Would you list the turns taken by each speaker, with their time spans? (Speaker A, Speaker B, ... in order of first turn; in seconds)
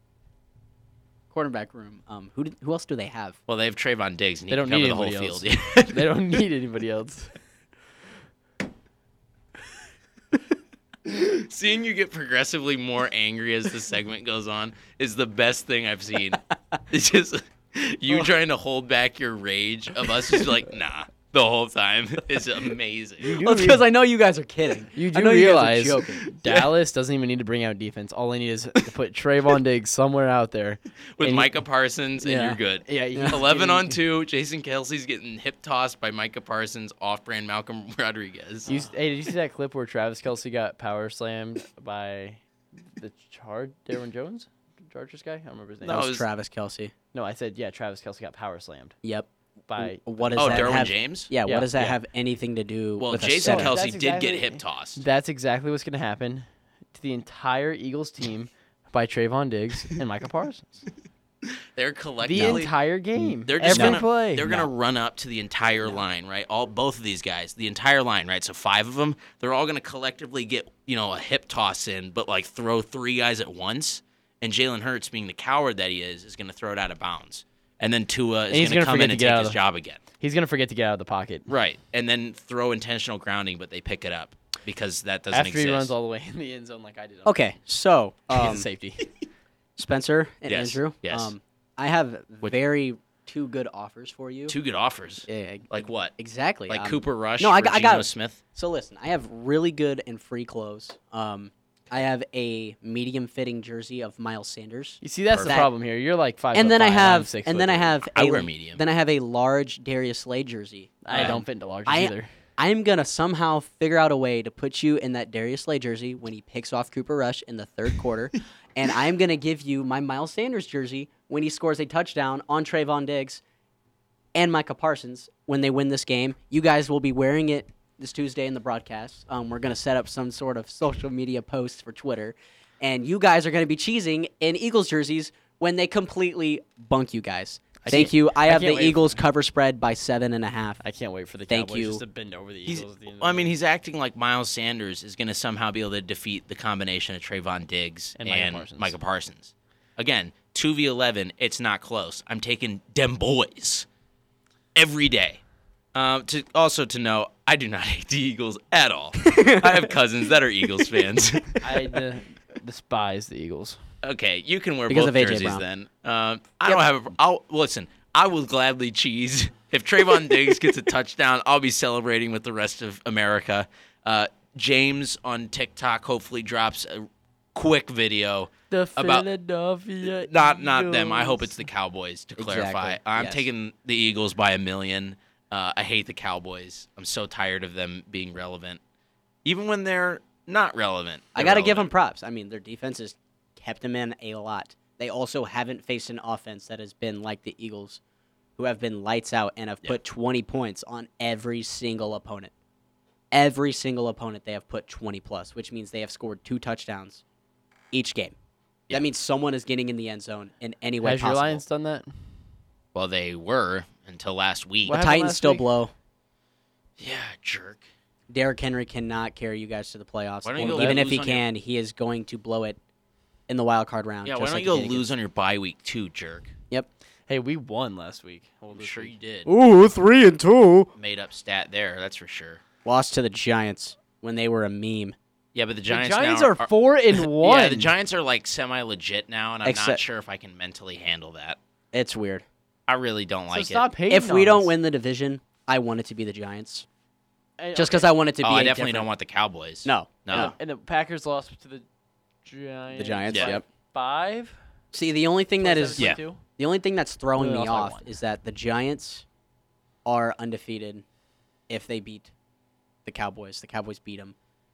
Speaker A: 1.3-3.4, 23.2-26.4, 33.1-33.4, 45.8-46.9, 49.0-53.7, 62.3-62.6, 63.7-64.6, 87.2-88.7, 89.8-94.6, 95.2-105.7, 106.5-123.4, 124.3-140.8, 141.5-142.0, 159.3-159.7, 164.9-165.6, 182.4-183.4, 191.3-198.0, 198.6-202.5, 203.3-207.2, 207.9-208.3, 208.9-211.6, 214.9-215.9, 218.3-222.8, 223.5-225.1, 230.3-230.8, 232.8-235.2, 239.6-240.0, 241.9-242.4, 244.1-246.8, 247.7-249.1, 249.8-250.5, 252.9-253.6, 254.9-259.2, 260.0-261.0, 261.7-262.3, 263.0-264.3
Speaker B: 3.5-6.2, 11.0-23.3, 31.2-38.7, 45.9-46.2, 50.4-51.9, 53.0-55.0, 61.5-62.7, 63.4-80.0, 81.5-85.9, 90.5-91.3, 94.5-96.1, 96.7-98.4, 105.3-105.6, 108.1-108.8, 111.1-111.4, 142.7-153.9, 154.7-155.4, 155.9-162.0, 164.0-179.3, 180.2-188.8, 189.4-191.9, 212.9-215.0, 217.0-217.9, 220.4-221.4, 224.2-226.5, 228.7-229.5, 230.9-232.6, 235.5-241.6, 242.9-243.9, 248.4-250.5, 253.3-253.6, 256.0-256.2
Speaker C: 4.5-7.3, 23.2-23.9, 24.9-31.6, 32.2-34.0, 38.7-42.4, 42.9-46.1, 47.1-49.0, 49.7-50.9, 51.5-51.9, 53.4-60.9, 62.2-64.6, 78.5-79.6, 80.1-81.5, 85.3-87.4, 88.3-89.1, 105.0-108.0, 111.0-112.3, 137.8-139.2, 140.8-143.5, 148.2-148.9, 161.6-163.8, 178.7-181.6, 211.0-212.2, 214.9-215.7, 220.6-221.0, 227.3-230.9, 235.9-237.9, 243.5-244.7, 247.6-248.2, 250.3-251.8, 252.4-254.6, 255.6-256.4, 257.4-258.1